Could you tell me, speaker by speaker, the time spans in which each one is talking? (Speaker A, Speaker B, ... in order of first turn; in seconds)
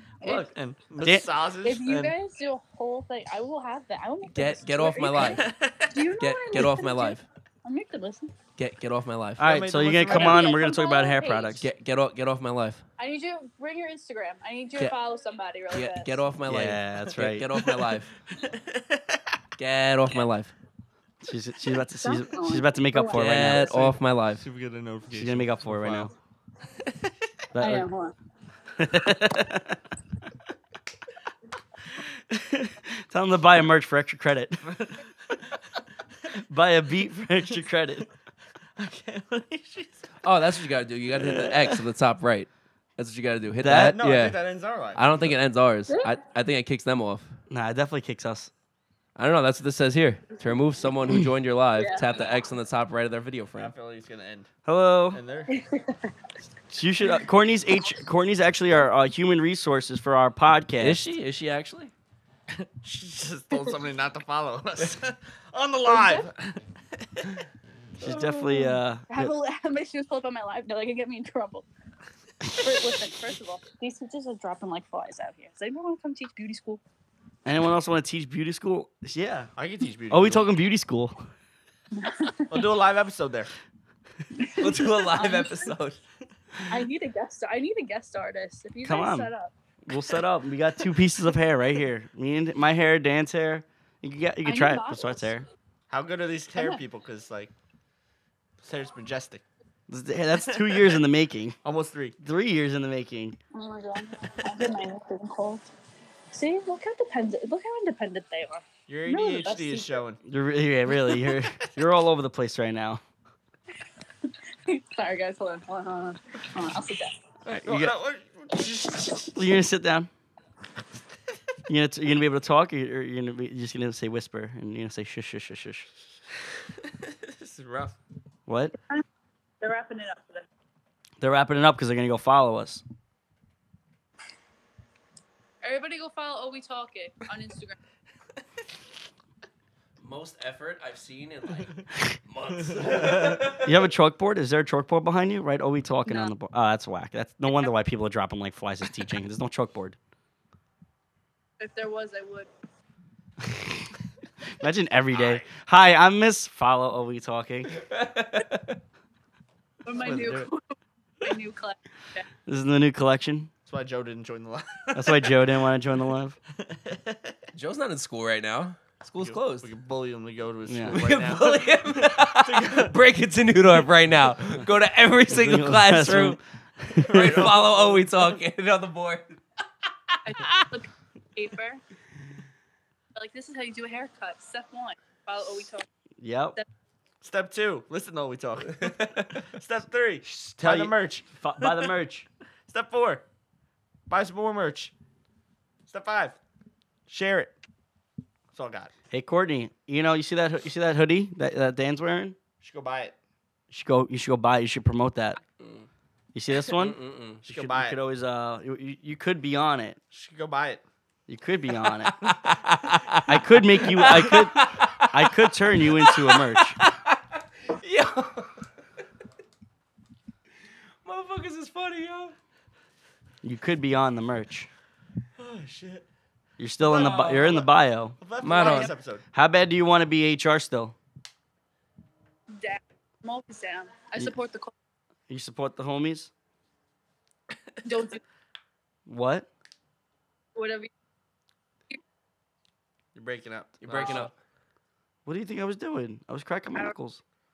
Speaker A: 0.2-0.5, 1.6-8.3, 10.0-11.6, 13.0-16.2, 21.9-23.9, 27.6-28.1, 45.9-46.2, 51.8-52.4, 55.5-56.0, 63.5-63.8, 65.9-66.3, 68.0-71.7, 72.5-76.8, 82.0-82.8, 84.4-85.8, 86.7-89.5, 94.4-95.4, 96.5-96.8, 103.5-105.7, 106.3-110.0, 114.7-117.1, 129.6-130.5, 135.6-137.8, 146.1-146.3, 151.6-152.5, 159.8-160.6, 161.2-162.3, 180.2-181.8, 183.2-185.9, 228.6-228.9, 232.5-234.7, 237.8-238.2, 240.6-240.9
Speaker B: 0.2-2.1, 5.2-6.1, 9.4-10.6, 17.5-19.4, 24.3-26.1, 34.7-35.0, 38.8-40.1, 41.2-41.8, 43.7-45.3, 53.6-54.5, 55.1-55.5, 62.5-67.4, 79.6-80.5, 82.5-83.5, 95.9-97.5, 98.6-99.4, 100.7-101.0, 101.6-102.2, 108.9-110.2, 117.5-119.4, 126.8-128.0, 142.5-143.5, 155.1-155.4, 160.1-160.5, 163.7-165.4, 166.6-167.4, 169.2-172.9, 177.0-178.3, 187.2-191.9, 192.7-193.2, 194.1-194.9, 195.9-196.4, 197.1-197.6, 198.5-198.9, 202.6-203.2, 207.4-208.0, 210.1-210.8, 225.4-226.1, 226.8-229.2, 243.2-244.3
Speaker C: 4.3-5.4, 6.2-7.2, 8.6-9.5, 11.6-12.8, 15.7-18.1, 19.6-20.5, 23.1-24.4, 40.2-44.4, 45.0-47.3, 49.2-53.7, 60.8-61.9, 84.6-86.0, 140.0-141.7, 142.3-143.8, 157.7-158.8, 167.5-169.7, 170.9-176.4, 177.1-179.4, 180.1-180.6, 188.7-189.4, 205.6-205.9, 206.7-207.4, 212.1-218.7, 221.1-222.3, 228.4-228.9, 243.8-244.3
Speaker D: 9.4-11.7, 16.5-17.5, 21.2-23.9, 25.1-26.1, 27.5-27.9, 28.8-29.8, 32.3-34.8, 36.5-38.1, 43.6-44.0, 47.5-48.5, 54.7-55.2, 56.7-61.1, 68.0-69.3, 77.5-79.5, 80.1-81.2, 88.8-89.3, 89.9-95.5, 99.9-101.6, 102.2-103.4, 110.2-113.0, 117.5-117.9, 119.3-120.1, 121.7-125.9, 128.5-128.7, 131.2-132.8, 143.6-150.0, 153.4-153.9, 154.6-157.8, 162.5-163.5, 164.9-166.4, 170.7-171.0, 175.3-177.5, 186.2-186.6, 190.2-192.3, 199.1-202.4, 203.7-205.4, 206.3-210.0, 211.3-212.1, 213.3-216.8, 223.4-224.7, 226.6-228.2, 229.3-230.9, 235.3-236.3, 239.1-239.5, 245.3-247.2